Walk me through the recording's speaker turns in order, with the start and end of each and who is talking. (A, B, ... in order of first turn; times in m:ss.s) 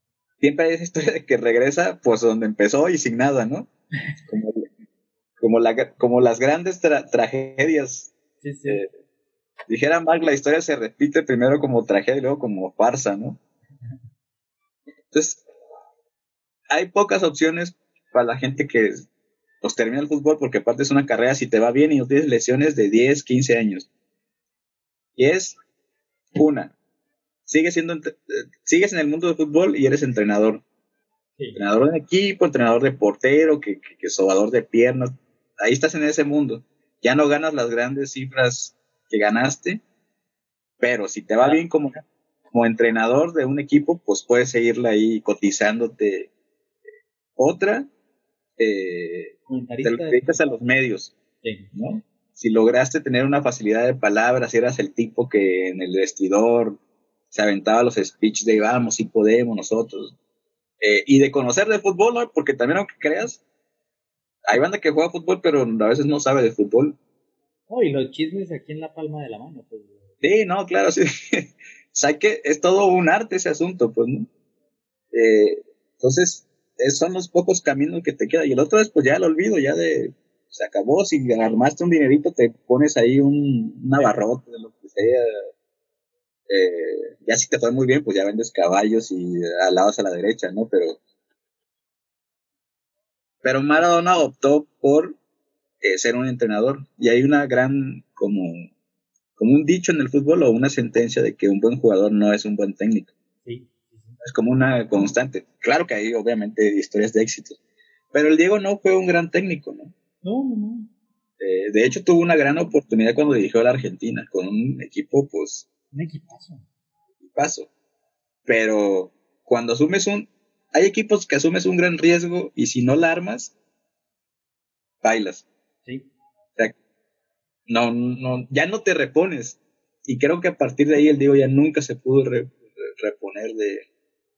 0:00.4-0:03.7 A
0:04.2-0:04.7 A
0:05.4-0:08.1 A
0:08.4-0:08.8 B
0:09.7-0:13.4 A
0:15.1-0:15.4 A
0:16.7-0:19.0 A
0:19.6-0:23.9 A
0:25.2-0:25.6 A
0:26.3-0:26.7 A
0:27.5-0:30.6 A
0:31.6-0:39.8 A
0:40.8-0:42.0 A
0:42.5-0:46.3 A
0:47.4-0:47.9 A
0:48.6-0:51.1 A
0:49.5-0:50.4 B
0:51.4-0:51.7 B
0:51.7-0:56.8 A
0:57.3-1:00.1 A
1:00.8-1:03.4 A
1:04.5-1:07.0 A
1:07.7-1:10.1 B
1:10.2-1:14.3 A
1:15.1-1:25.3 A
1:26.5-1:31.0 A
1:33.4-1:35.2 A
1:35.8-1:38.7 A
1:39.4-1:43.1 A
1:43.4-1:44.2 B
1:44.2-1:47.6 A
1:48.1-1:49.9 A
1:50.2-1:50.9 B
1:51.4-1:55.6 A
1:55.9-1:56.6 B
1:57.2-1:57.7 A
1:58.5-2:03.5 A
2:05.0-2:05.4 A
2:07.7-2:13.8 A